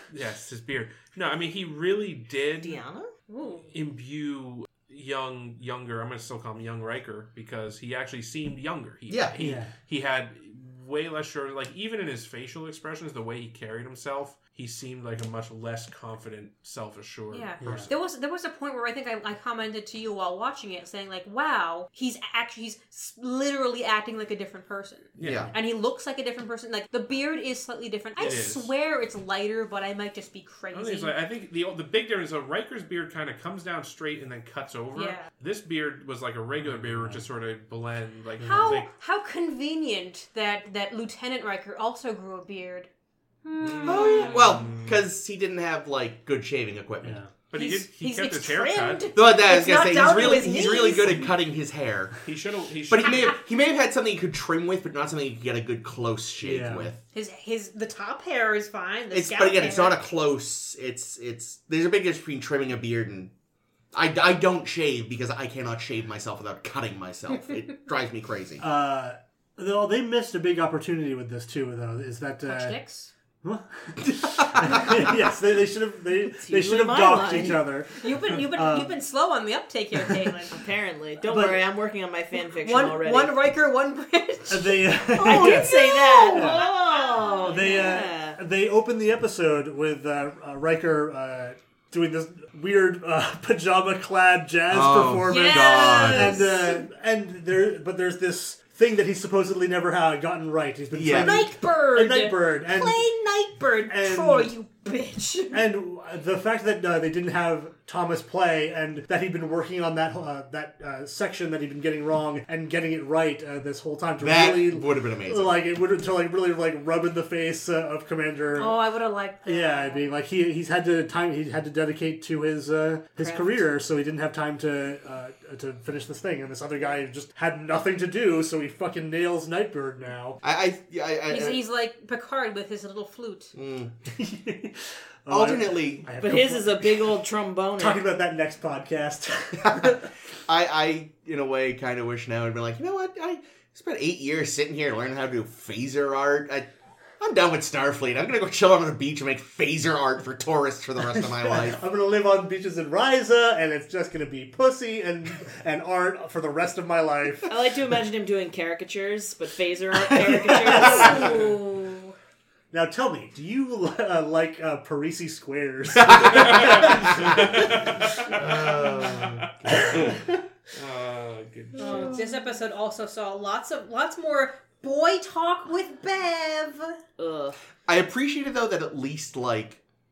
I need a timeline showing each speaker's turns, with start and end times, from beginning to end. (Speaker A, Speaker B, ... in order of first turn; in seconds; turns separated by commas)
Speaker A: 0.1-2.8, Speaker B: 2.6-3.1, Speaker C: 3.3-3.7, Speaker A: 3.7-17.9, Speaker D: 9.1-9.4, Speaker E: 9.4-9.7, Speaker C: 17.3-31.1, Speaker E: 17.6-17.9, Speaker A: 25.2-25.5, Speaker D: 25.2-25.5, Speaker A: 28.2-28.7, Speaker A: 30.7-38.9, Speaker C: 34.9-35.3, Speaker E: 36.7-37.2, Speaker E: 38.4-38.8, Speaker C: 38.4-42.9, Speaker C: 43.4-44.5, Speaker A: 43.6-45.0, Speaker D: 43.9-47.2, Speaker E: 47.0-47.3, Speaker A: 47.5-49.1, Speaker C: 47.5-51.3, Speaker D: 49.1-52.2, Speaker A: 52.2-53.4, Speaker D: 52.9-57.0, Speaker E: 56.4-56.9, Speaker C: 57.1-60.0, Speaker D: 59.1-63.3, Speaker D: 63.9-68.6, Speaker E: 68.6-72.8, Speaker C: 72.5-73.1, Speaker E: 73.4-79.0, Speaker D: 74.2-75.1, Speaker B: 76.4-77.6, Speaker C: 78.0-80.5, Speaker B: 80.5-83.3, Speaker E: 81.2-81.7, Speaker C: 82.6-87.8, Speaker E: 84.5-86.7, Speaker B: 85.2-88.4, Speaker E: 87.4-103.1, Speaker D: 94.7-96.5, Speaker C: 95.2-96.8, Speaker D: 100.9-101.5, Speaker C: 101.1-105.6, Speaker E: 103.9-104.5, Speaker E: 105.5-118.8, Speaker D: 114.2-115.6, Speaker C: 118.6-120.1, Speaker E: 119.4-130.4, Speaker D: 130.4-131.6, Speaker C: 131.3-133.5, Speaker D: 133.5-133.9, Speaker E: 134.1-137.2, Speaker D: 135.3-136.3, Speaker B: 136.2-138.1, Speaker E: 137.8-140.1, Speaker D: 139.6-146.7, Speaker D: 147.2-151.8, Speaker E: 151.4-157.5, Speaker B: 157.5-161.5, Speaker E: 160.1-161.4, Speaker C: 160.7-162.2, Speaker E: 162.7-167.6, Speaker A: 166.2-172.2, Speaker D: 168.3-170.1, Speaker C: 171.8-177.0, Speaker B: 177.2-177.6, Speaker D: 177.9-179.8